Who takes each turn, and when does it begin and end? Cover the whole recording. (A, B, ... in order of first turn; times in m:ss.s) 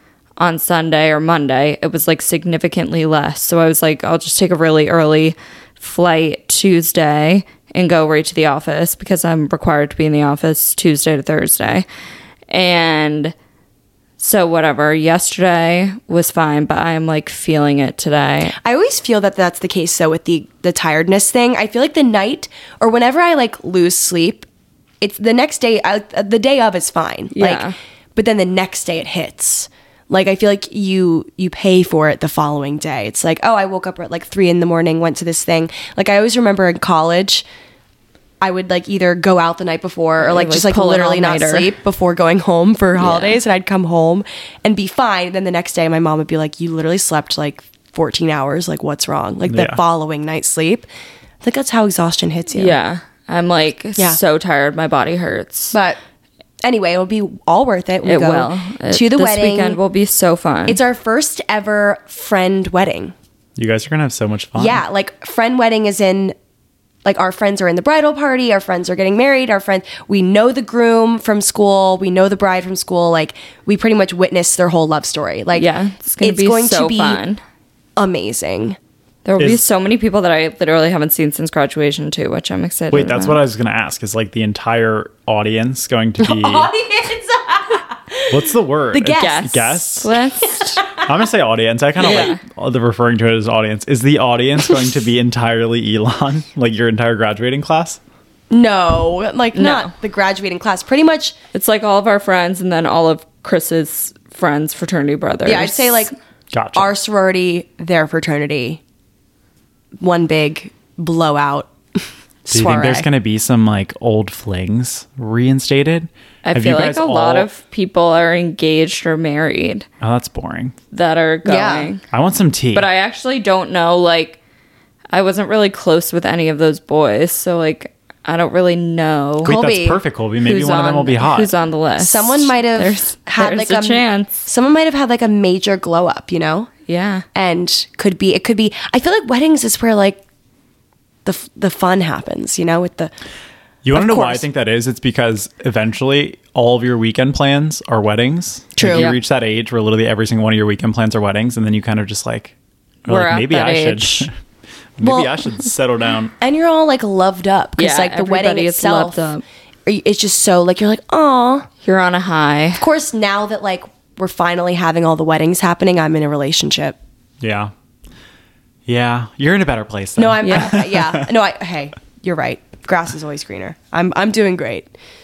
0:00.4-0:11.9 A
0:12.5-0:13.3 A
0:14.2-0:18.6 A
0:18.6-0:24.5 B
0:25.0-0:37.4 B
0:27.3-0:27.8 A
0:38.4-0:50.9 B
0:40.2-0:41.7 A
0:43.0-0:43.4 A
0:49.5-0:49.8 C
0:51.4-0:52.8 B
0:52.5-0:55.8 A
0:55.7-0:56.0 B
0:56.6-0:59.8 B
0:58.0-1:00.8 A
1:00.7-1:03.1 B
1:03.6-1:04.8 C
1:04.6-1:06.4 B
1:07.0-1:15.7 B
1:15.6-1:17.4 A
1:16.2-1:17.2 B
1:18.0-1:18.8 B
1:19.2-1:23.4 A
1:22.9-1:26.7 C
1:26.2-1:29.6 B
1:28.3-1:30.1 C
1:29.2-1:30.8 A
1:30.6-1:31.1 B
1:31.0-1:38.0 C
1:32.0-1:32.4 A
1:38.5-1:41.4 B
1:39.6-1:39.9 A
1:41.5-1:46.1 A
1:45.4-1:46.1 B
1:46.5-1:46.9 C
1:46.8-1:48.8 B
1:50.0-1:51.7 B
1:52.4-1:53.1 B
1:52.5-1:57.5 C
1:56.4-1:59.9 A
2:00.0-2:00.8 C
2:00.9-2:02.0 A
2:01.4-2:01.9 B
2:02.1-2:02.9 C
2:02.7-2:04.4 A
2:05.1-2:09.5 A
2:09.4-2:11.5 C
2:09.4-2:10.0 B
2:10.4-2:14.3 A
2:12.0-2:16.7 B
2:16.9-2:17.2 A
2:17.3-2:20.2 B
2:21.2-2:23.1 B
2:23.8-2:32.5 C
2:23.9-2:24.4 B
2:28.8-2:29.1 B
2:28.9-2:29.2 A
2:33.1-2:34.3 C
2:33.1-2:34.3 A
2:35.0-2:36.3 C
2:35.0-2:35.4 B
2:36.4-2:39.3 B
2:37.8-2:39.4 A
2:39.9-2:41.7 B
2:41.8-2:42.8 A
2:42.8-2:47.0 B
2:47.4-2:47.7 C
2:48.9-2:51.3 C
2:50.2-2:54.9 B
2:50.4-2:50.8 A